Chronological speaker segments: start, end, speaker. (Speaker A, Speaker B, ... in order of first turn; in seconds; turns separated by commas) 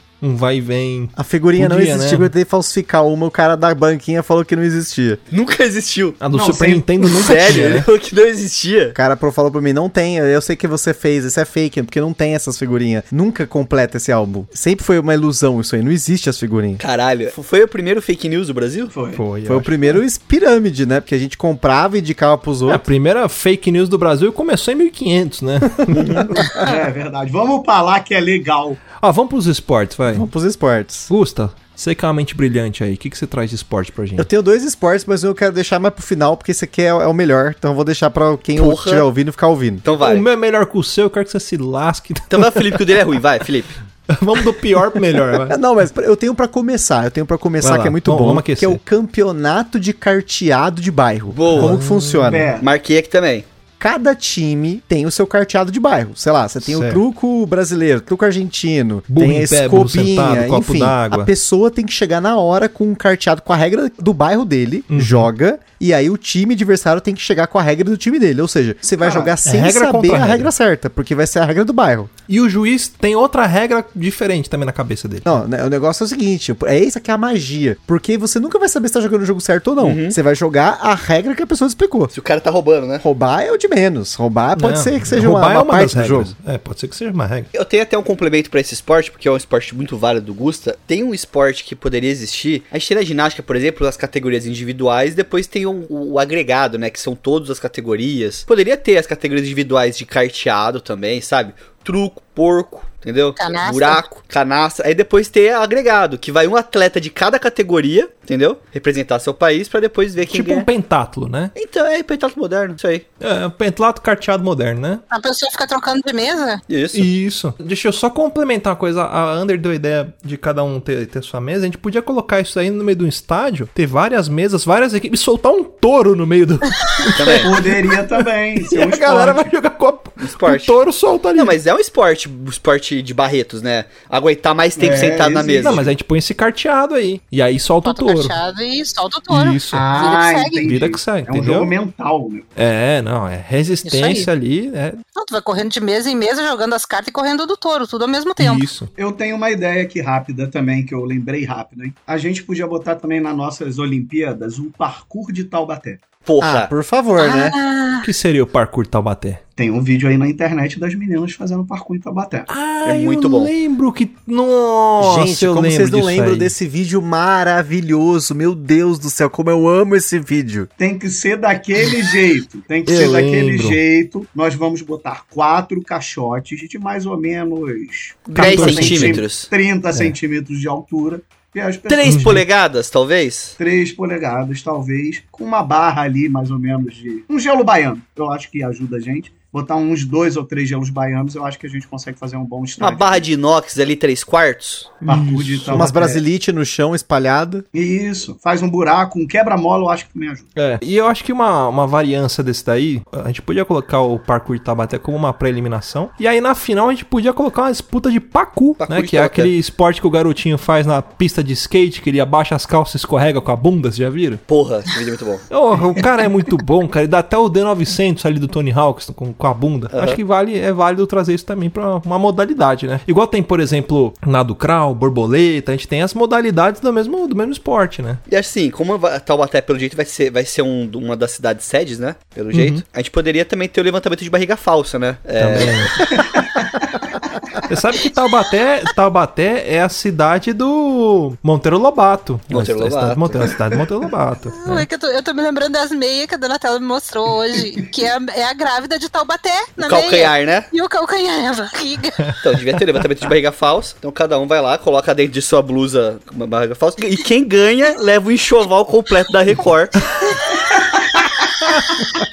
Speaker A: 0.2-2.3, Speaker B: 1.1-5.2, Speaker C: 5.3-6.2, Speaker A: 6.2-7.9, Speaker D: 6.3-7.7, Speaker C: 7.2-8.9, Speaker B: 8.9-16.8, Speaker C: 16.8-18.9, Speaker D: 18.9-19.3, Speaker A: 19.1-20.0, Speaker B: 19.4-22.8, Speaker A: 22.7-26.5, Speaker B: 25.8-26.7, Speaker C: 25.9-26.3, Speaker D: 26.6-28.8, Speaker A: 29.0-30.3, Speaker B: 30.1-31.1, Speaker A: 31.1-34.3, Speaker B: 34.2-39.8, Speaker C: 38.6-39.0, Speaker C: 39.8-40.2, Speaker A: 40.0-43.0, Speaker C: 42.3-43.8, Speaker A: 44.1-45.5, Speaker B: 45.5-52.5, Speaker A: 47.6-48.8, Speaker C: 51.3-51.8, Speaker A: 51.5-52.4, Speaker D: 52.2-52.6, Speaker C: 52.6-53.5, Speaker B: 53.8-72.1, Speaker A: 56.6-57.0, Speaker A: 59.1-61.3, Speaker A: 64.9-65.3, Speaker D: 69.0-69.3, Speaker A: 69.5-70.5, Speaker A: 72.3-75.4, Speaker B: 75.2-82.1, Speaker C: 79.8-80.2, Speaker C: 82.1-83.0, Speaker B: 83.0-86.3, Speaker A: 84.5-87.5, Speaker C: 87.5-110.7, Speaker E: 103.4-104.0, Speaker A: 110.2-111.5, Speaker C: 111.5-113.0, Speaker A: 113.2-115.0, Speaker E: 115.1-116.6, Speaker C: 116.7-117.1, Speaker A: 116.9-131.6, Speaker C: 127.2-127.6, Speaker D: 127.4-129.5, Speaker C: 130.2-130.7, Speaker C: 131.3-135.9, Speaker D: 134.8-135.8, Speaker A: 135.6-138.3, Speaker E: 137.8-140.7, Speaker A: 139.3-139.9, Speaker D: 139.7-142.5, Speaker A: 140.6-141.7, Speaker A: 142.6-145.0, Speaker E: 143.8-144.3, Speaker E: 145.1-148.7, Speaker A: 148.4-148.9, Speaker D: 148.9-156.1, Speaker C: 156.2-156.7, Speaker B: 156.4-157.6, Speaker E: 157.2-158.1, Speaker A: 158.0-159.4, Speaker D: 159.6-162.5, Speaker A: 162.5-166.5, Speaker C: 162.8-163.5, Speaker B: 165.0-170.7, Speaker D: 170.8-182.4, Speaker A: 172.8-173.8, Speaker C: 178.3-179.5, Speaker A: 178.3-179.2, Speaker C: 181.9-183.6, Speaker A: 182.1-182.4, Speaker D: 183.6-193.2, Speaker C: 192.8-195.0, Speaker A: 195.0-195.9, Speaker D: 195.0-196.2, Speaker B: 195.7-197.6, Speaker D: 197.7-200.5, Speaker A: 200.6-214.4, Speaker C: 208.8-209.5, Speaker C: 214.5-215.4, Speaker A: 215.5-228.2, Speaker C: 219.9-220.2, Speaker C: 228.3-236.3, Speaker A: 232.5-232.8, Speaker A: 235.4-236.0, Speaker D: 236.2-236.7, Speaker A: 237.7-244.9, Speaker C: 242.5-243.5, Speaker E: 244.5-252.3, Speaker C: 249.8-250.7, Speaker C: 252.4-260.1, Speaker E: 260.2-260.6, Speaker D: 260.6-261.3